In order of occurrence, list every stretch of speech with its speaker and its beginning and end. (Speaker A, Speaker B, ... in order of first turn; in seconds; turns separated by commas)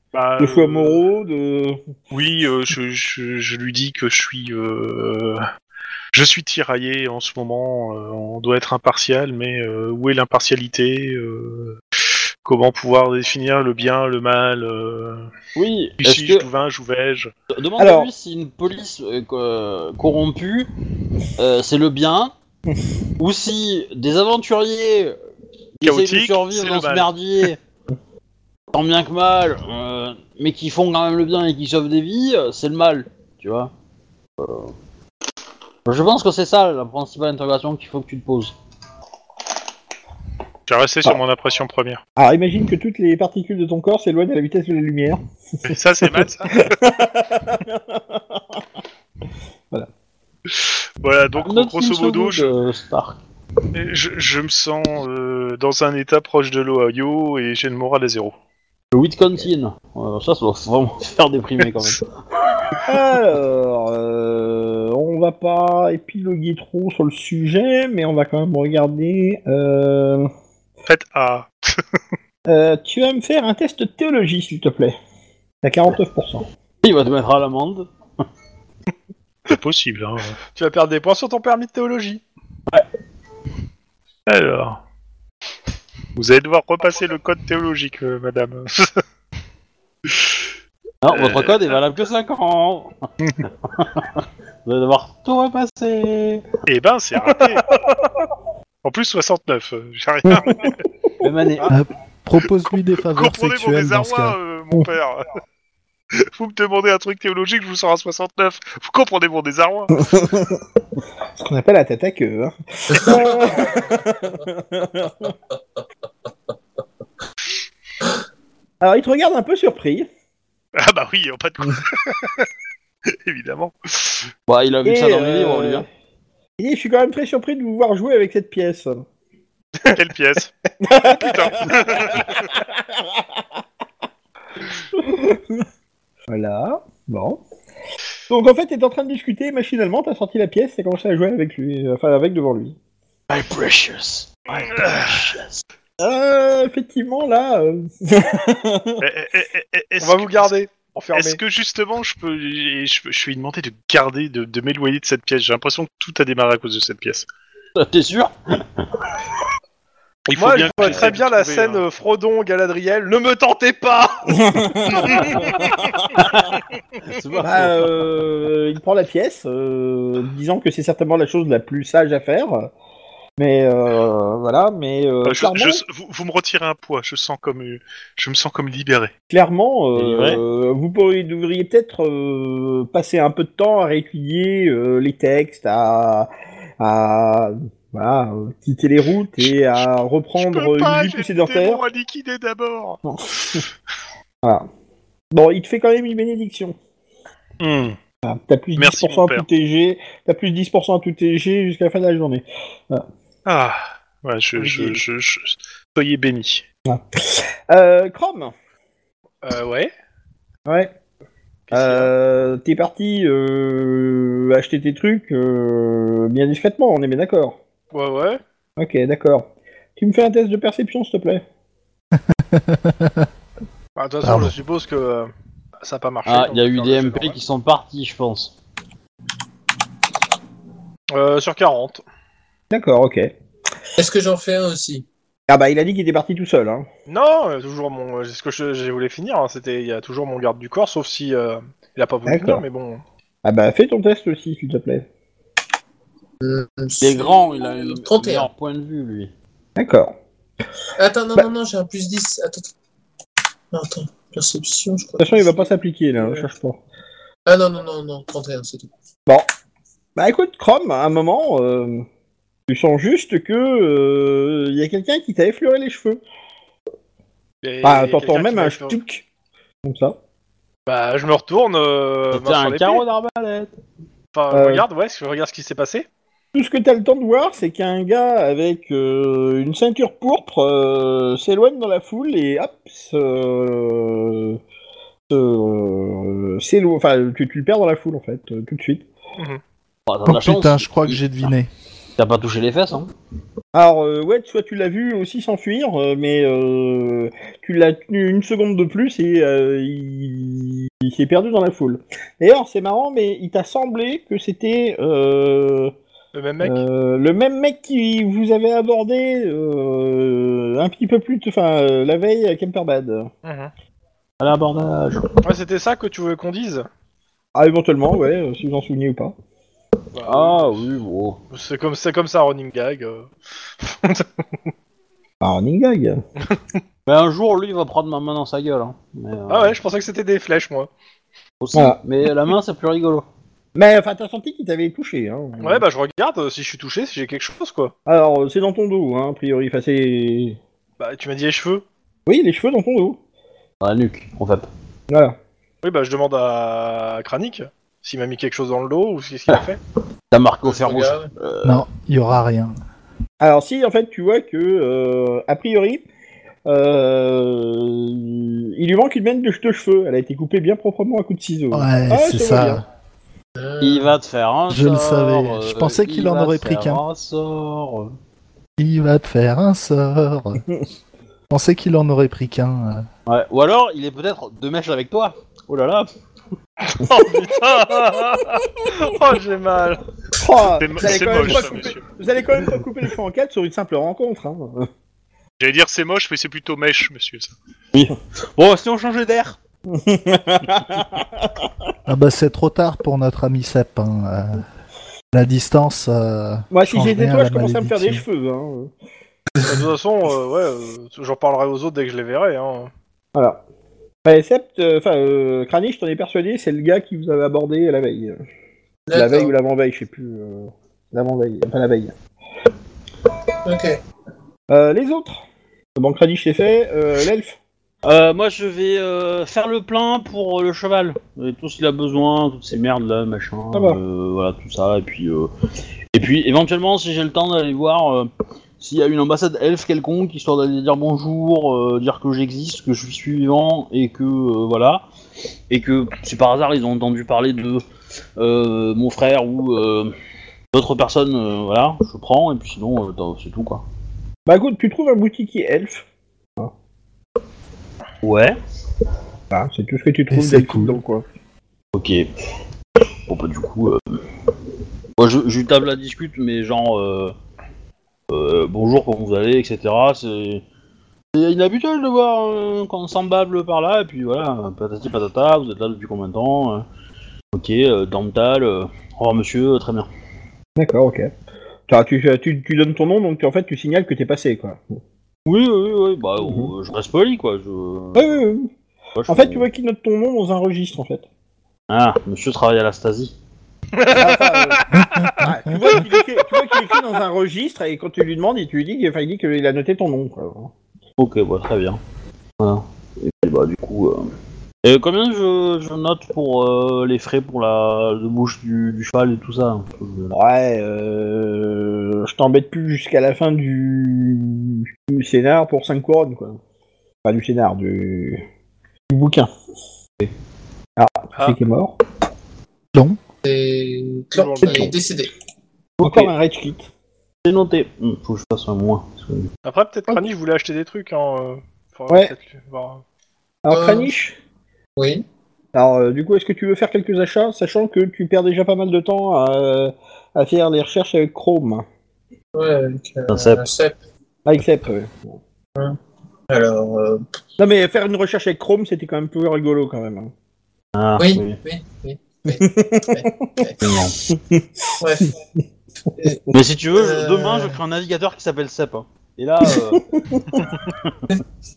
Speaker A: 0.1-1.0, Speaker B: 0.4-1.8, Speaker A: 2.1-5.4, Speaker A: 6.1-11.8, Speaker A: 12.4-15.3, Speaker C: 15.6-16.5, Speaker A: 16.0-17.3, Speaker C: 17.5-20.7, Speaker B: 17.8-18.1, Speaker C: 21.4-22.3, Speaker C: 23.2-25.2, Speaker C: 25.8-27.6, Speaker A: 25.8-27.1, Speaker C: 28.7-33.7, Speaker C: 34.4-34.7, Speaker C: 35.9-38.5, Speaker A: 40.7-42.0, Speaker B: 42.2-48.6, Speaker A: 45.6-46.8, Speaker A: 50.5-52.5, Speaker C: 51.4-53.2, Speaker A: 53.7-58.4, Speaker C: 58.9-62.0, Speaker B: 62.9-70.3, Speaker A: 70.9-71.8, Speaker B: 72.5-75.0, Speaker B: 75.6-76.5, Speaker C: 76.8-77.9, Speaker A: 79.5-80.4, Speaker D: 80.5-82.2, Speaker A: 84.3-84.8, Speaker A: 86.2-88.9, Speaker C: 91.0-93.0, Speaker A: 91.1-91.5, Speaker C: 93.6-96.4, Speaker A: 96.7-97.7, Speaker A: 98.8-100.8, Speaker C: 101.2-101.7, Speaker E: 101.7-104.4, Speaker A: 103.1-105.3, Speaker A: 106.2-110.0, Speaker B: 110.0-110.6, Speaker B: 111.4-115.3, Speaker B: 118.8-120.1, Speaker A: 120.8-122.5, Speaker A: 123.1-124.3, Speaker C: 124.5-125.9, Speaker B: 124.8-125.9, Speaker B: 126.6-129.0, Speaker A: 129.8-132.5, Speaker B: 130.8-133.4, Speaker B: 134.9-135.7, Speaker B: 136.3-137.4, Speaker B: 138.3-142.8, Speaker C: 143.3-145.6, Speaker A: 144.6-145.3, Speaker B: 146.0-149.0, Speaker A: 149.0-150.5, Speaker D: 150.0-151.4, Speaker A: 151.1-157.3, Speaker C: 157.8-159.1, Speaker A: 160.3-161.8, Speaker D: 160.4-165.5, Speaker C: 160.8-161.1, Speaker B: 164.3-166.3, Speaker A: 165.1-165.5, Speaker C: 167.1-167.9, Speaker B: 167.4-172.7, Speaker B: 173.4-175.8, Speaker A: 175.2-179.1, Speaker B: 179.3-191.8, Speaker C: 179.9-180.4, Speaker A: 189.4-193.6, Speaker B: 193.1-193.6, Speaker B: 195.3-196.8, Speaker A: 197.6-198.0, Speaker B: 198.2-203.1, Speaker A: 198.8-199.4, Speaker A: 203.5-206.7, Speaker D: 204.6-205.0, Speaker B: 206.9-208.5, Speaker D: 209.4-209.9, Speaker B: 210.7-210.9, Speaker D: 211.7-212.1, Speaker B: 211.7-217.6, Speaker D: 217.9-218.4, Speaker B: 218.8-221.4, Speaker E: 222.3-223.3, Speaker D: 224.0-225.3, Speaker E: 224.2-224.5, Speaker D: 225.8-227.4, Speaker C: 226.2-228.5, Speaker D: 231.1-232.0, Speaker B: 232.7-233.3, Speaker F: 234.0-235.1, Speaker B: 235.5-236.9, Speaker D: 237.1-243.0, Speaker B: 242.3-242.6, Speaker B: 243.4-245.1, Speaker F: 246.4-248.5, Speaker C: 247.0-249.3, Speaker B: 249.8-250.2, Speaker F: 251.0-252.7, Speaker F: 253.7-255.7, Speaker B: 255.2-256.8, Speaker F: 257.5-258.9, Speaker B: 260.2-262.1, Speaker B: 262.7-266.2, Speaker D: 267.6-269.0, Speaker B: 267.8-269.2, Speaker B: 269.9-270.2, Speaker D: 270.9-273.0, Speaker C: 272.3-273.8, Speaker D: 274.3-276.1, Speaker B: 274.5-274.9, Speaker B: 276.5-284.6, Speaker B: 285.3-289.1, Speaker C: 290.1-291.2, Speaker E: 290.3-291.7, Speaker C: 292.2-293.1, Speaker B: 293.7-305.9, Speaker D: 306.3-306.9, Speaker B: 306.6-313.3, Speaker D: 313.4-313.7, Speaker C: 314.4-315.4, Speaker D: 315.4-316.9, Speaker B: 317.6-319.3, Speaker D: 320.1-320.8, Speaker C: 320.2-321.4, Speaker D: 321.5-323.3, Speaker D: 323.8-324.3, Speaker B: 325.4-326.2, Speaker C: 327.1-329.8, Speaker D: 329.5-330.9, Speaker C: 331.6-333.3, Speaker B: 333.8-335.8, Speaker D: 335.6-337.9, Speaker B: 338.1-340.6, Speaker D: 341.0-341.9, Speaker B: 342.3-343.2, Speaker C: 343.8-344.7, Speaker B: 345.1-345.4, Speaker D: 345.8-349.8, Speaker C: 350.3-351.9, Speaker F: 350.6-351.3, Speaker E: 351.6-352.8, Speaker B: 353.4-356.1, Speaker B: 356.7-362.8, Speaker E: 361.7-362.8, Speaker F: 363.6-364.1, Speaker C: 363.8-368.1, Speaker E: 364.7-367.0, Speaker E: 368.8-370.6, Speaker E: 371.5-373.1, Speaker C: 373.3-376.1, Speaker D: 376.9-380.0, Speaker B: 380.4-384.9, Speaker A: 380.8-382.1, Speaker A: 385.6-387.5, Speaker C: 387.9-389.6, Speaker B: 389.9-391.7, Speaker E: 392.1-394.6, Speaker E: 395.3-398.3, Speaker B: 396.7-398.9, Speaker D: 399.6-402.9, Speaker B: 403.4-403.6, Speaker B: 404.2-408.4, Speaker F: 409.1-409.5, Speaker B: 409.1-412.1, Speaker F: 413.6-414.0, Speaker B: 414.7-415.4, Speaker B: 416.0-417.6, Speaker C: 418.0-425.5, Speaker B: 423.7-424.0, Speaker C: 426.1-435.0, Speaker C: 435.7-437.8, Speaker C: 438.4-440.1, Speaker C: 440.7-443.8, Speaker B: 444.5-446.1, Speaker C: 448.2-448.6, Speaker B: 449.5-451.2, Speaker E: 450.3-451.0, Speaker C: 451.9-452.3, Speaker C: 453.3-454.2, Speaker C: 455.2-457.4, Speaker C: 458.3-460.6, Speaker C: 461.3-466.9, Speaker C: 467.5-470.1, Speaker B: 470.8-471.3, Speaker B: 471.9-475.0, Speaker C: 475.5-478.4, Speaker B: 476.4-476.7, Speaker B: 478.1-478.7, Speaker C: 479.2-479.7, Speaker B: 479.3-481.3, Speaker C: 481.9-483.3, Speaker D: 484.0-486.1, Speaker B: 484.2-490.7, Speaker C: 491.2-492.0, Speaker C: 492.6-494.3, Speaker C: 494.8-500.4, Speaker B: 500.3-506.6, Speaker B: 507.2-508.4, Speaker B: 509.1-509.5, Speaker B: 511.0-512.0, Speaker F: 513.4-515.3, Speaker D: 514.3-514.9, Speaker B: 514.6-514.9, Speaker C: 516.0-516.3, Speaker B: 516.0-516.9, Speaker C: 517.5-519.5, Speaker D: 519.6-523.0, Speaker B: 523.6-524.4, Speaker F: 523.7-524.1, Speaker F: 525.0-525.2, Speaker B: 525.7-531.9, Speaker F: 532.5-534.0, Speaker C: 533.3-533.6, Speaker B: 534.5-535.4, Speaker F: 536.5-537.2, Speaker B: 537.6-540.3, Speaker C: 541.0-541.6, Speaker F: 541.2-543.8, Speaker B: 542.5-543.6, Speaker C: 543.8-544.2, Speaker B: 544.3-544.9, Speaker F: 545.0-545.4, Speaker F: 546.1-546.4, Speaker C: 546.5-551.2, Speaker F: 546.9-547.8, Speaker B: 549.9-550.6